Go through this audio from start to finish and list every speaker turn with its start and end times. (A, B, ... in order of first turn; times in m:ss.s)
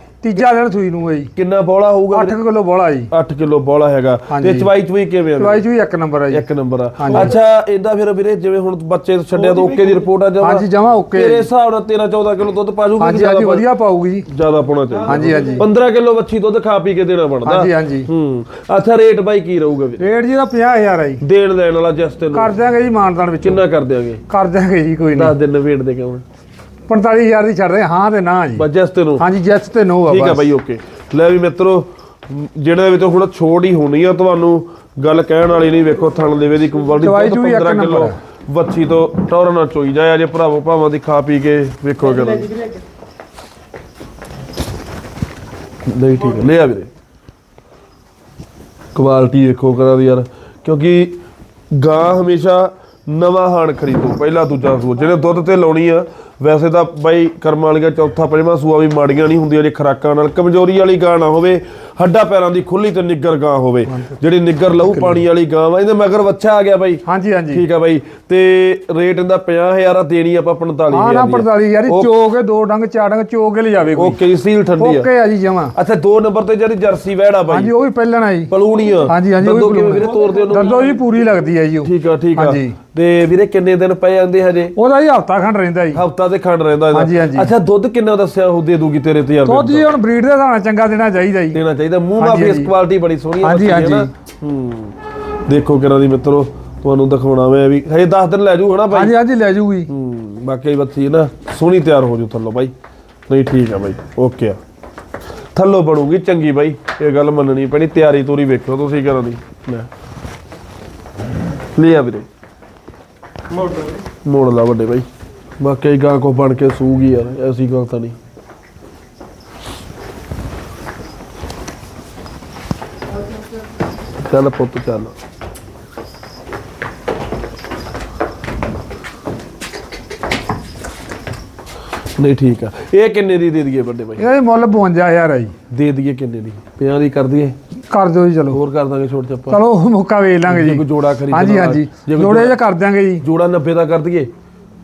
0:00.2-0:01.3 A
0:01.4-0:02.4 B
0:02.1-0:03.1 A
0:03.1-0:05.6 B
0:04.3-0:04.7 A
0:05.4-0:07.3 A
0:06.3-0:13.7 B
0:10.4-0:11.5 A
0:13.0-0:14.3 A
0:14.3-0:20.0 B
0:15.0-0:15.6 A
0:17.4-0:18.1 A
0:20.0-0:21.2 A
0:21.2-0:22.5 B
0:22.3-0:23.6 A
0:23.4-0:24.2 B
0:24.3-0:25.3 A
0:25.1-0:26.2 B
0:26.9-0:28.7 A
0:28.6-0:29.2 B
0:29.2-0:30.5 A
0:30.0-0:42.6 B
0:37.0-0:38.2 A
0:45.9-0:46.9 B
0:48.9-0:51.2 B
0:51.7-1:12.1 B
1:03.9-1:04.2 A
1:04.9-1:05.2 A
1:07.0-1:07.6 A
1:10.9-1:14.2 A
1:13.9-1:15.1 B
1:14.8-1:15.7 A
1:15.7-1:17.7 B
1:17.5-1:18.5 A
1:18.5-1:21.0 B
1:19.0-1:22.8 A
1:21.8-1:24.7 B
1:24.7-1:26.0 A
1:25.9-1:29.9 B
1:26.9-1:27.5 A
1:29.4-1:31.6 A
1:31.5-1:39.2 B
1:32.2-1:32.7 A
1:33.4-1:34.1 A
1:38.9-1:39.9 A
1:39.9-1:42.7 B
1:43.3-1:44.6 B
1:45.5-1:49.9 B
1:51.7-1:52.3 B
1:54.2-1:55.1 B
1:55.6-1:58.2 B
2:04.2-2:05.1 B
2:12.2-2:14.2 B
2:14.2-2:15.5 A
2:15.7-2:17.6 B
2:17.9-2:18.6 A
2:18.5-2:19.6 B
2:19.5-2:23.2 A
2:20.4-2:22.6 B
2:23.2-2:24.3 B